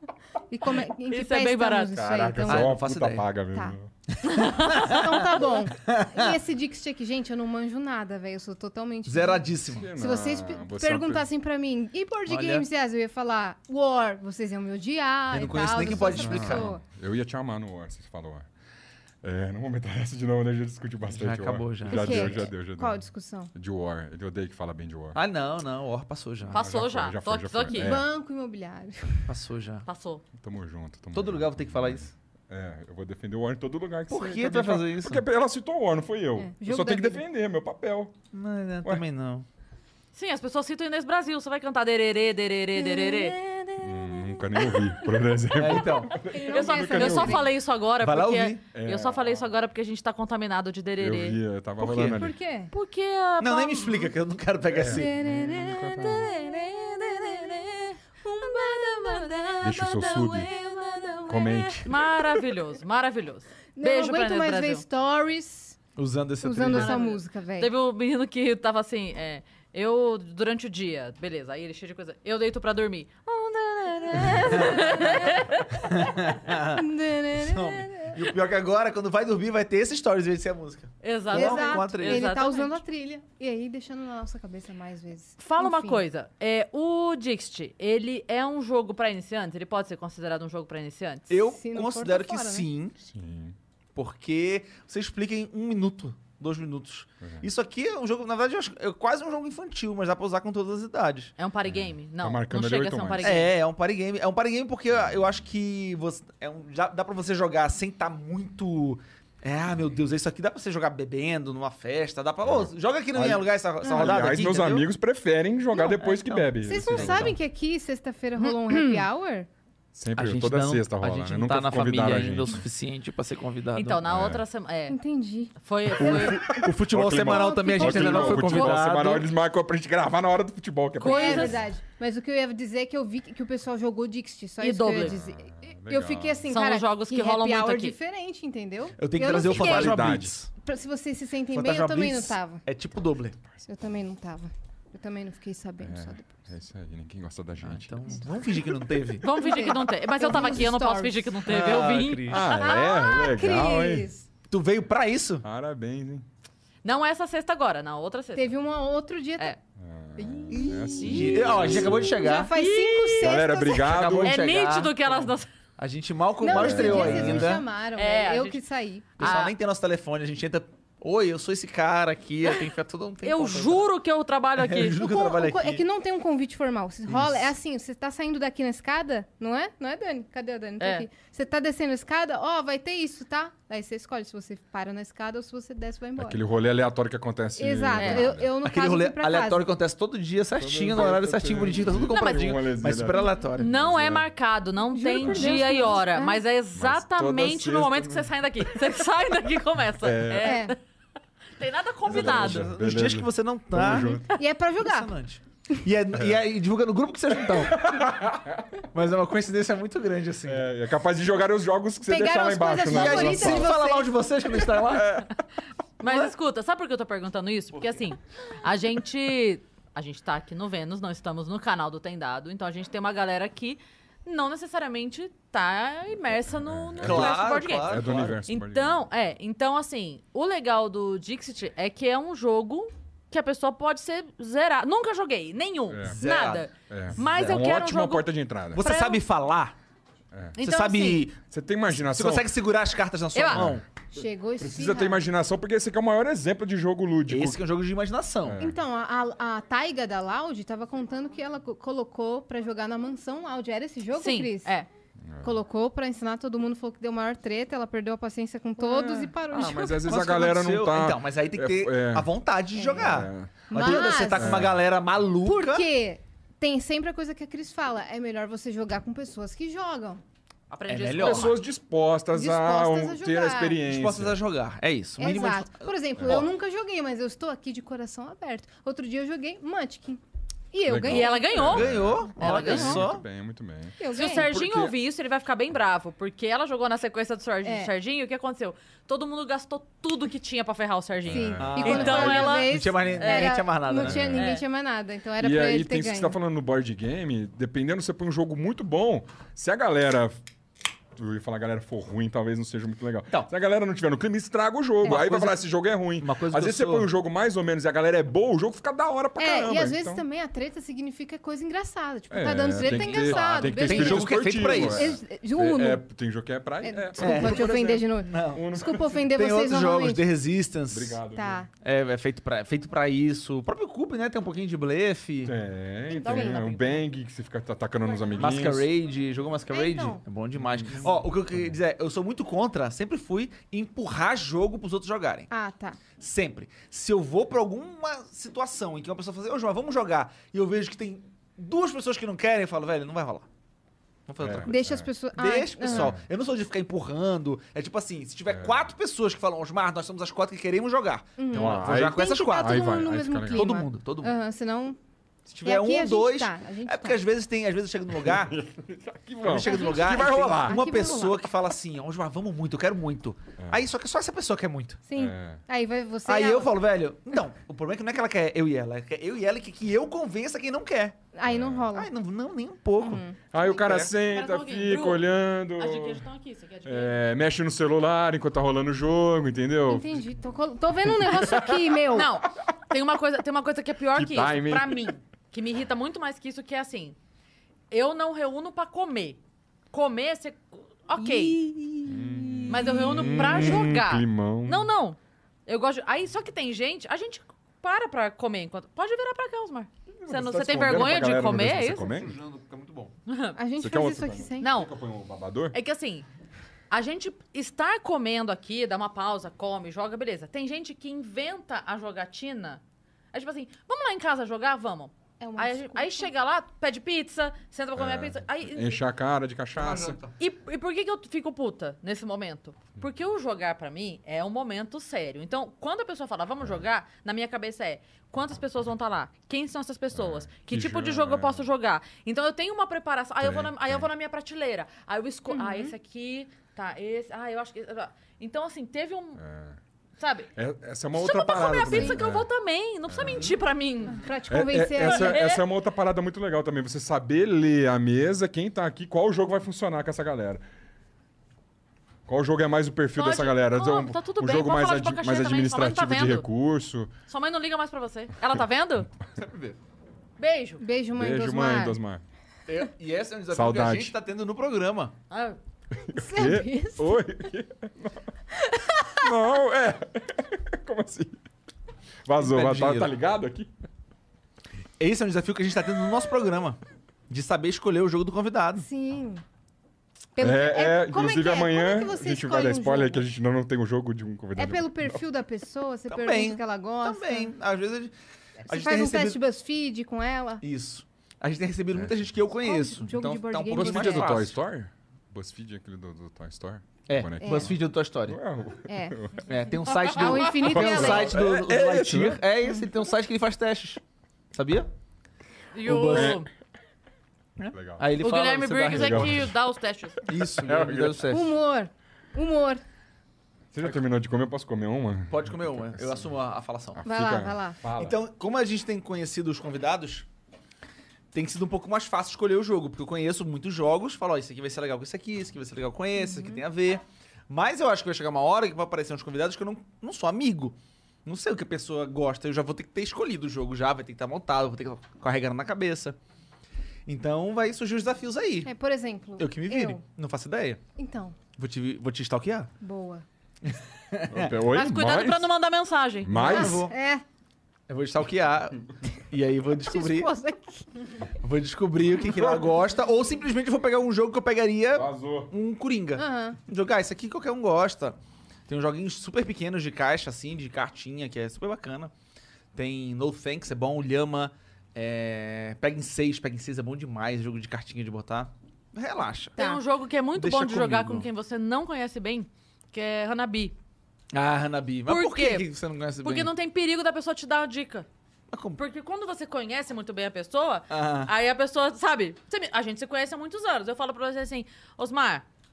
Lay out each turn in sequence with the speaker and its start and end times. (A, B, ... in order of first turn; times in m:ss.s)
0:00.5-0:02.7 A
0:01.1-0:02.0 B
0:02.0-0:03.9 C
0:02.5-0:03.3 D
0:04.1-0:06.4 D
0:04.2-0:04.8 B
0:04.4-0:16.8 A
0:09.1-0:09.9 D
0:09.7-0:11.3 C
0:12.3-0:12.7 D
0:15.3-0:16.7 D
0:15.7-0:18.5 C
0:19.2-0:23.0 C
0:21.1-0:22.4 D
0:21.9-0:23.5 A
0:23.6-0:25.2 C
0:25.2-0:26.6 D
0:26.5-0:28.1 C
0:26.5-0:28.0 B
0:27.7-0:29.3 A
0:29.3-0:29.9 D
0:29.9-0:30.2 B
0:30.4-0:38.2 C
0:31.1-0:32.1 D
0:34.1-0:35.2 D
0:36.4-0:37.2 A
0:38.3-0:39.4 D
0:40.1-0:43.4 B
0:42.8-0:45.0 A
0:43.8-0:47.5 C
0:45.6-0:46.2 D
0:46.2-0:47.5 A
0:46.3-0:51.4 B
0:48.0-0:48.6 D
0:48.7-0:49.5 C
0:51.0-0:52.4 C
0:51.8-0:52.2 D
0:51.9-0:52.7 A
0:52.7-0:54.1 B
0:53.4-0:55.1 D
0:54.7-0:56.3 C
0:54.8-1:02.6 A
0:56.4-1:00.5 B
0:59.6-1:00.5 C
1:01.3-1:01.9 C
1:01.8-1:04.8 B
1:03.8-1:05.8 A
1:06.0-1:07.0 D
1:06.4-1:07.7 A
1:06.7-1:15.9 B
1:14.1-1:15.4 A
1:14.4-1:15.0 D
1:15.8-1:22.3 D
1:16.7-1:18.2 A
1:21.0-1:22.8 B
1:21.3-1:26.0 A
1:25.4-1:31.3 B
1:31.3-1:33.0 D
1:31.5-1:32.7 A
1:33.0-1:33.6 C
1:34.0-1:41.3 D
1:41.4-1:43.5 B
1:41.6-1:43.3 C
1:43.2-1:54.9 D
1:52.4-1:57.4 C
1:53.8-1:54.4 A
1:55.8-1:57.4 D
1:56.6-1:59.5 A
1:58.4-1:59.0 D
1:59.9-2:02.6 C
2:00.2-2:04.0 D
2:03.8-2:05.0 B
2:04.0-2:04.4 C
2:04.9-2:06.3 A
2:05.6-2:06.4 B
2:06.0-2:09.3 D
2:06.0-2:11.6 C
2:07.1-2:08.8 A
2:11.0-2:11.6 B
2:11.0-2:20.1 A
2:14.6-2:15.2 B
2:15.0-2:16.5 C
2:16.5-2:18.0 B
2:19.0-2:20.5 D
2:19.3-2:20.4 C
2:20.6-2:22.6 A
2:21.5-2:23.4 D
2:23.7-2:26.4 A
2:25.8-2:28.3 C
2:27.6-2:29.3 D
2:29.2-2:32.8 B
2:29.2-2:31.4 A
2:31.5-2:32.5 D
2:32.3-2:34.1 C
2:32.5-2:34.3 A
2:34.5-2:35.4 D
2:35.4-2:36.2 C
2:36.8-2:38.5 B
2:38.4-2:39.6 A
2:39.8-2:42.2 C
2:40.2-2:43.9 A
2:40.5-2:42.6 D
2:41.0-2:41.7 B
2:42.2-2:43.4 B
2:43.2-2:44.4 C
2:43.8-2:47.7 D
2:44.2-2:45.5 B
2:46.4-2:49.4 A
2:46.5-2:47.6 C
2:48.0-2:48.6 B
2:49.2-2:49.6 B
2:49.2-2:53.9 D
2:53.2-2:55.0 B
2:54.6-2:55.8 D
2:55.0-3:06.4 A
2:57.1-2:57.5 D
3:00.8-3:01.1 B
3:06.2-3:08.6 C
3:07.6-3:09.7 A
3:08.0-3:08.3 B
3:08.6-3:13.7 D
3:10.6-3:14.3 C
3:12.0-3:12.6 B
3:13.6-3:20.8 B
3:14.9-3:16.4 A
3:15.2-3:15.7 C
3:16.8-3:18.3 C
3:20.0-3:20.6 C
3:20.4-3:20.8 A
3:21.6-3:22.7 B
3:22.0-3:24.2 D
3:22.1-3:24.3 C
3:24.3-3:25.1 A
3:24.8-3:28.1 D
3:26.1-3:26.4 C
3:27.5-3:28.7 C
3:28.9-3:30.7 D
3:30.5-3:33.8 C
3:32.0-3:34.2 A
3:32.8-3:35.2 D
3:34.8-3:35.3 C
3:36.0-3:59.2 B
3:36.0-3:36.3 D
3:46.5-3:49.0 C
3:47.0-3:48.4 D
3:55.9-3:56.2 C
3:56.2-3:56.7 D
3:56.9-3:58.8 C
3:58.7-3:59.8 D
4:00.3-4:00.6 C
4:00.6-4:01.2 B
4:00.6-4:03.8 D
4:01.5-4:02.5 C
4:03.4-4:03.6 B
4:03.5-4:07.6 C
4:04.1-4:05.2 A
4:07.3-4:08.6 D
4:08.4-4:08.8 C
4:08.6-4:14.7 A
4:14.2-4:14.9 B
4:15.3-4:15.6 C
4:15.4-4:20.0 A
4:18.8-4:20.0 B
4:19.5-4:22.3 C
4:20.1-4:25.9 D
4:22.8-4:24.7 A
4:22.9-4:24.8 C
4:25.4-4:30.2 A
4:30.7-4:31.6 B
4:30.9-4:31.6 D
4:31.2-4:34.4 C
4:32.3-4:33.8 A
4:33.9-4:36.5 D
4:35.2-4:40.2 A
4:40.7-4:41.8 A
4:40.8-4:45.0 C
4:41.1-4:43.0 B
4:41.7-4:43.2 D
4:42.6-4:42.9 A
4:44.0-4:44.5 A
4:44.1-4:53.6 B
4:47.6-4:47.9 A
4:51.2-4:52.5 C
4:51.3-4:56.4 A
4:51.6-4:54.4 D
4:54.0-4:54.5 C
4:54.4-4:54.6 B
4:55.4-5:00.4 C
5:01.2-5:10.2 C
5:05.0-5:05.6 D
5:06.2-5:07.1 D
5:09.4-5:16.0 A
5:12.3-5:19.3 C
5:12.7-5:15.2 D
5:16.8-5:20.3 A
5:17.2-5:18.8 D
5:19.3-5:21.2 D
5:20.9-5:21.6 C
5:21.3-5:21.7 A
5:21.8-5:25.6 D
5:25.4-5:28.9 C
5:26.1-5:26.9 A
5:28.4-5:35.5 D
5:29.7-5:30.2 A
5:30.6-5:31.8 C
5:35.5-5:36.0 A
5:36.2-5:43.5 D
5:44.3-5:54.3 D
5:44.4-5:45.1 C
5:44.7-5:46.2 A
5:45.9-5:46.2 C
5:48.5-5:48.9 C
5:51.4-5:55.0 A
5:51.5-5:53.7 C
5:55.5-5:58.6 D
5:55.6-5:57.2 A
5:58.2-6:00.9 C
5:59.4-6:05.0 D
5:59.5-6:01.4 A
6:03.6-6:03.8 C
6:05.1-6:06.7 A
6:05.2-6:05.6 C
6:06.2-6:11.2 D
6:11.4-6:12.1 A
6:11.5-6:11.9 C
6:12.0-6:14.1 D
6:13.0-6:13.4 A
6:13.5-6:16.2 C
6:14.2-6:15.2 B
6:15.8-6:17.2 B
6:16.8-6:20.3 C
6:19.9-6:22.3 A
6:21.0-6:22.2 C
6:22.1-6:27.2 B
6:24.1-6:25.1 C
6:27.9-6:29.4 B
6:29.9-6:31.6 B
6:31.2-6:33.7 A
6:32.0-6:34.9 C
6:32.7-6:42.2 B
6:40.1-6:42.4 C
6:42.1-6:43.1 D
6:43.3-6:43.6 B
6:43.6-6:44.7 A
6:43.8-6:45.8 C
6:44.6-6:44.9 B
6:45.7-6:46.3 B
6:46.9-6:52.8 B
6:53.3-6:59.0 B
6:55.4-6:56.3 A
6:58.0-7:00.2 C
6:59.8-7:00.3 D
7:00.4-7:19.4 B
7:10.1-7:11.7 C
7:13.4-7:14.1 C
7:15.5-7:15.9 A
7:19.4-7:19.8 C
7:20.2-7:20.5 B
7:20.6-7:22.5 C
7:21.1-7:24.2 B
7:21.9-7:22.2 A
7:23.1-7:23.6 C
7:24.1-7:25.5 A
7:24.5-7:30.6 C
7:25.0-7:25.6 B
7:32.3-7:37.1 C
7:33.2-7:36.5 B
7:37.3-7:39.1 B
7:39.4-7:39.8 D
7:40.4-7:40.8 B
7:40.8-7:42.0 A
7:41.2-7:42.2 C
7:42.7-7:45.1 D
7:43.5-7:44.2 C
7:45.3-7:45.6 B
7:46.0-7:48.2 C
7:46.1-7:47.2 A
7:48.6-7:49.2 A
7:49.2-7:51.4 C
7:52.2-7:53.7 C
7:52.4-7:53.1 D
7:55.0-7:58.9 D
7:58.8-7:59.4 A
8:00.4-8:03.2 A
8:00.4-8:05.2 C
8:04.6-8:07.5 A
8:06.1-8:08.1 D
8:08.7-8:09.4 D
8:08.7-8:10.6 A
8:10.6-8:14.6 D
8:12.0-8:12.4 C
8:12.6-8:14.4 A
8:13.7-8:19.5 C
8:17.1-8:18.4 D
8:17.4-8:17.7 A
8:18.9-8:19.2 A
8:19.5-8:24.0 D
8:19.9-8:20.5 B
8:20.1-8:21.4 A
8:20.6-8:22.4 C
8:24.5-8:24.9 D
8:25.7-8:26.5 B
8:25.8-8:26.4 D
8:26.1-8:26.4 C
8:27.6-8:29.5 D
8:27.7-8:28.1 C
8:28.2-8:30.2 B
8:28.9-8:29.5 C
8:30.3-8:31.6 D
8:30.4-8:31.3 C
8:31.3-8:32.8 A
8:33.7-8:36.3 C
8:35.3-8:37.0 D
8:37.0-8:38.2 C
8:37.0-8:37.8 A
8:38.0-8:40.3 D
8:41.3-8:56.2 D
8:46.2-8:46.6 A
8:57.1-8:58.7 D
8:58.6-9:00.0 A
8:59.4-9:00.8 D
9:01.0-9:01.4 A
9:01.6-9:02.7 D
9:02.8-9:03.2 A
9:03.6-9:04.6 D
9:04.3-9:05.5 C
9:04.7-9:06.4 B
9:06.2-9:06.9 C
9:06.3-9:06.9 D
9:06.4-9:07.2 A
9:07.9-9:10.3 D
9:09.9-9:11.1 A
9:11.4-9:18.2 D
9:12.2-9:12.7 C
9:14.9-9:15.5 C
9:16.2-9:16.6 A
9:18.7-9:22.1 D
9:22.8-9:29.6 D
9:29.6-9:29.8 A
9:29.6-9:33.8 B
9:30.4-9:31.3 D
9:34.3-9:36.5 D
9:35.1-9:35.7 B
9:36.2-9:38.1 B
9:38.5-9:38.8 D
9:38.8-9:45.4 B
9:40.9-9:41.3 D